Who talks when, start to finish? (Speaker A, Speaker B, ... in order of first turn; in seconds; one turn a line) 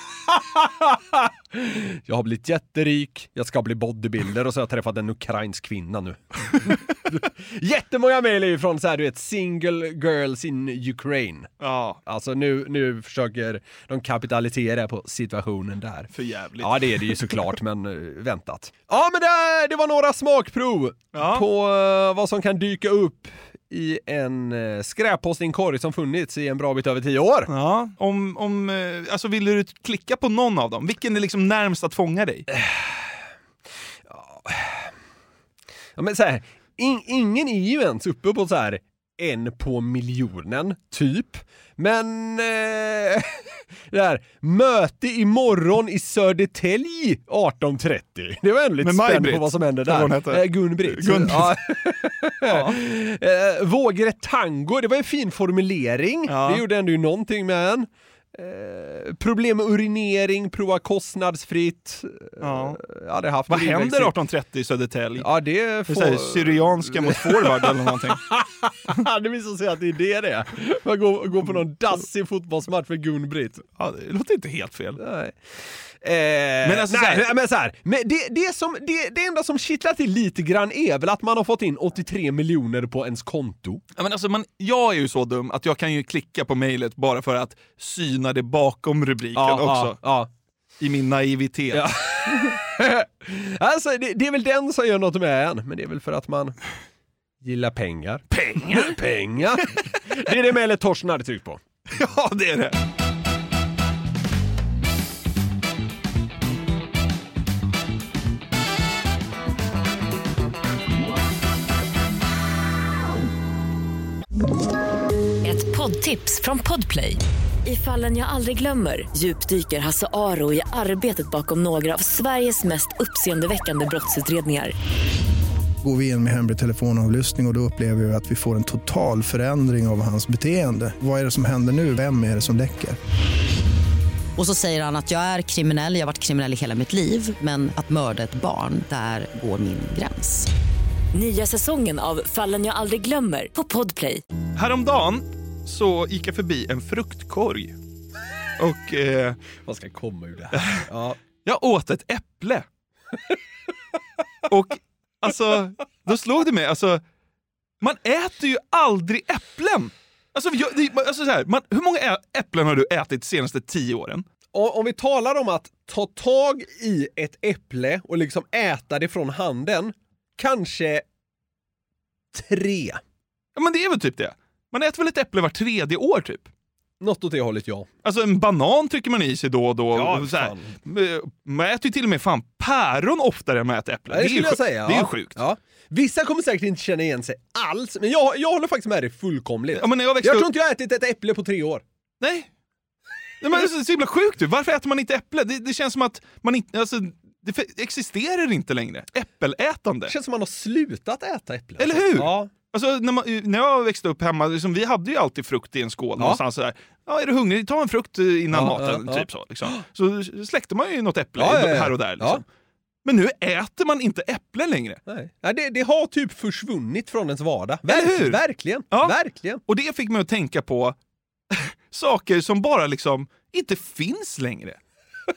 Speaker A: 0.5-11.5
Speaker B: 11.6-12.0
Speaker A: 12.1-27.5
Speaker B: 16.1-17.4
Speaker B: 21.1-21.4
Speaker B: 27.5-32.5
Speaker A: 32.5-33.2
Speaker A: 34.1-34.9
Speaker A: 36.0-64.1
Speaker B: 48.8-51.9
Speaker B: 52.4-52.8
Speaker B: 56.3-56.6
Speaker B: 62.4-62.8
Speaker B: 63.5-65.3
Speaker A: 65.2-73.6
Speaker B: 65.9-68.3
Speaker B: 73.8-75.0
Speaker A: 75.0-83.8
Speaker B: 76.6-77.3
Speaker B: 84.0-90.0
Speaker A: 89.3-90.3
Speaker B: 90.8-91.9
Speaker A: 91.7-96.6
Speaker A: 97.4-101.6
Speaker B: 98.3-99.0
Speaker B: 101.9-102.8
Speaker C: 115.4-124.7
Speaker D: 125.8-133.0
Speaker E: 134.4-140.5
Speaker C: 141.1-144.2
Speaker B: 144.6-147.7
Speaker B: 148.6-149.4
Speaker A: 149.6-151.2
Speaker B: 150.5-150.8
Speaker B: 151.4-152.7
Speaker B: 154.5-157.0
Speaker B: 157.8-164.2
Speaker A: 164.5-171.0
Speaker A: 172.3-173.0
Speaker B: 173.6-176.5
Speaker A: 177.0-177.9
Speaker B: 178.0-185.4
Speaker A: 179.9-180.7
Speaker A: 184.1-191.8
Speaker B: 189.7-190.4
Speaker B: 192.2-192.5
Speaker B: 193.4-200.1
Speaker A: 200.1-202.5
Speaker B: 201.8-212.4
Speaker A: 208.5-209.7
Speaker A: 211.4-212.4
Speaker B: 213.0-215.0
Speaker A: 215.1-219.6
Speaker B: 217.9-218.4
Speaker B: 219.7-220.9
Speaker B: 221.5-224.8